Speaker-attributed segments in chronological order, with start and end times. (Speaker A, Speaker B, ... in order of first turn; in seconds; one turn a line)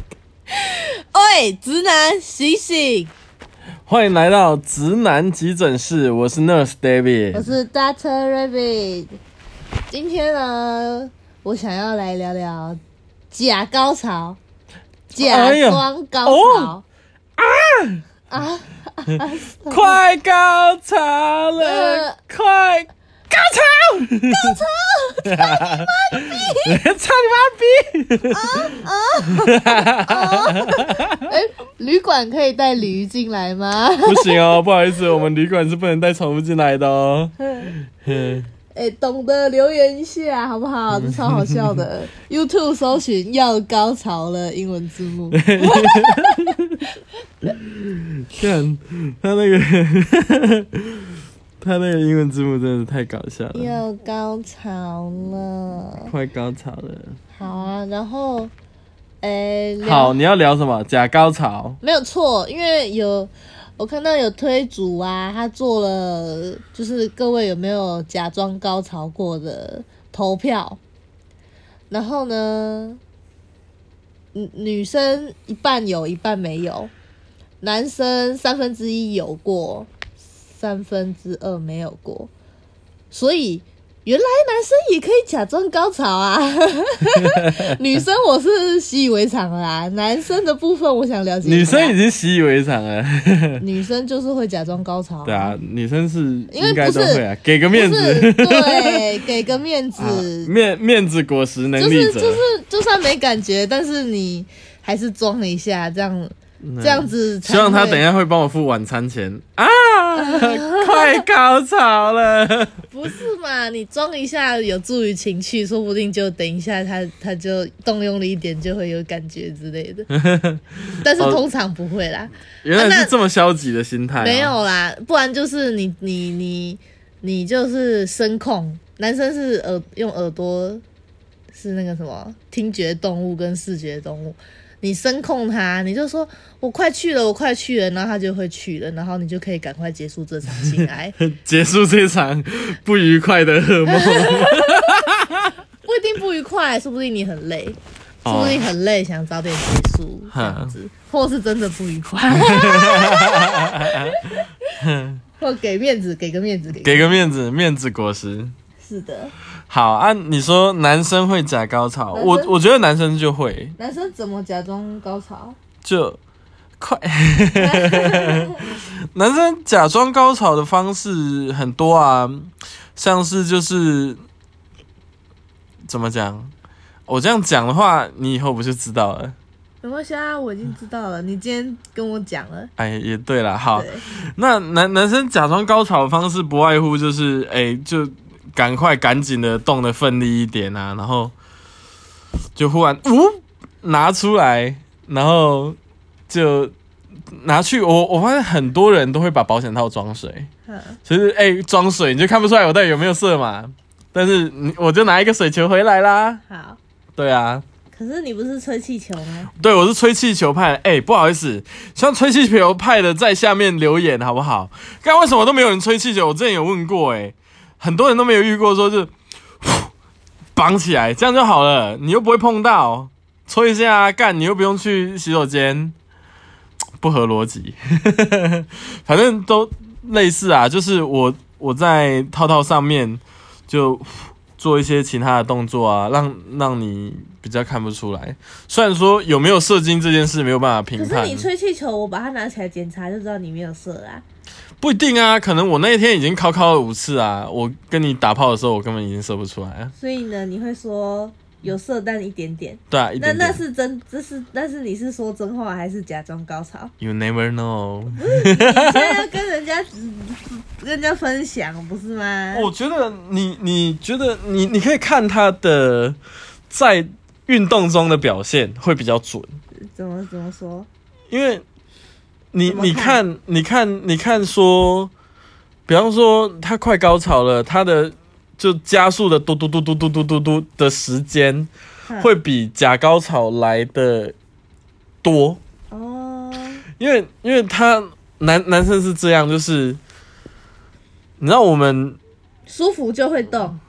Speaker A: 0.5-3.1
Speaker B: 3.9-7.5
Speaker A: 7.3-9.2
Speaker A: 9.9-12.8
Speaker A: 13.3-14.4
Speaker B: 15.1-16.7
Speaker A: 15.1-16.8
Speaker B: 17.4-18.0
Speaker A: 18.3-20.0
Speaker B: 19.1-24.6
Speaker A: 21.6-22.2
Speaker A: 24.3-26.8
Speaker B: 25.2-31.3
Speaker A: 28.3-34.4
Speaker B: 34.0-37.3
Speaker A: 37.4-37.7
Speaker B: 38.0-38.5
Speaker A: 38.7-47.5
Speaker B: 40.9-41.8
Speaker B: 45.3-46.8
Speaker B: 47.4-53.8
Speaker A: 53.5-56.1
Speaker B: 56.0-57.2
Speaker A: 57.4-58.5
Speaker A: 59.2-60.2
Speaker B: 59.8-61.8
Speaker A: 61.8-70.8
Speaker A: 71.9-73.0
Speaker A: 74.3-76.9
Speaker A: 77.6-79.9
Speaker A: 80.5-82.3
Speaker A: 83.1-92.0
Speaker B: 87.2-87.8
Speaker B: 91.4-93.6
Speaker A: 93.6-95.5
Speaker B: 95.2-99.0
Speaker A: 96.5-100.5
Speaker B: 100.0-102.4
Speaker A: 101.8-108.0
Speaker B: 106.6-112.8
Speaker A: 110.1-111.2
Speaker A: 112.9-120.1
Speaker B: 120.1-121.4
Speaker A: 121.0-123.1
Speaker B: 122.6-124.5
Speaker A: 124.2-130.8
Speaker A: 131.5-141.2
Speaker B: 140.8-145.5
Speaker A: 143.9-145.1
Speaker A: 145.8-154.8
Speaker B: 148.2-148.7
Speaker B: 150.3-150.7
Speaker B: 152.3-154.2
Speaker B: 154.8-155.2
Speaker A: 155.4-157.2
Speaker B: 156.8-158.5
Speaker A: 158.8-159.3
Speaker B: 159.7-163.7
Speaker A: 162.1-162.5
Speaker A: 163.8-165.6
Speaker B: 165.8-166.2
Speaker B: 166.8-174.2
Speaker A: 167.6-168.7
Speaker B: 175.9-176.5
Speaker B: 177.1-179.3
Speaker A: 179.8-182.7
Speaker B: 182.8-191.3
Speaker A: 183.7-184.0
Speaker B: 192.6-195.8
Speaker B: 196.3-196.7
Speaker B: 197.3-200.5
Speaker A: 200.7-201.0
Speaker B: 201.0-206.4
Speaker A: 206.5-206.8
Speaker B: 207.2-207.6
Speaker A: 207.9-209.5
Speaker B: 209.6-219.9
Speaker B: 220.5-225.9
Speaker B: 227.0-241.5
Speaker A: 240.9-244.2
Speaker B: 244.8-249.9
Speaker A: 249.9-256.9
Speaker B: 252.9-253.6
Speaker B: 257.0-259.2
Speaker A: 258.1-262.7
Speaker B: 262.5-266.2
Speaker B: 266.7-269.6
Speaker A: 269.8-270.9
Speaker B: 271.3-271.6
Speaker B: 272.5-275.1
Speaker A: 272.6-273.2
Speaker B: 275.9-284.3
Speaker B: 285.2-285.6
Speaker A: 285.9-286.8
Speaker B: 287.0-290.0
Speaker B: 291.4-292.2
Speaker A: 292.7-293.8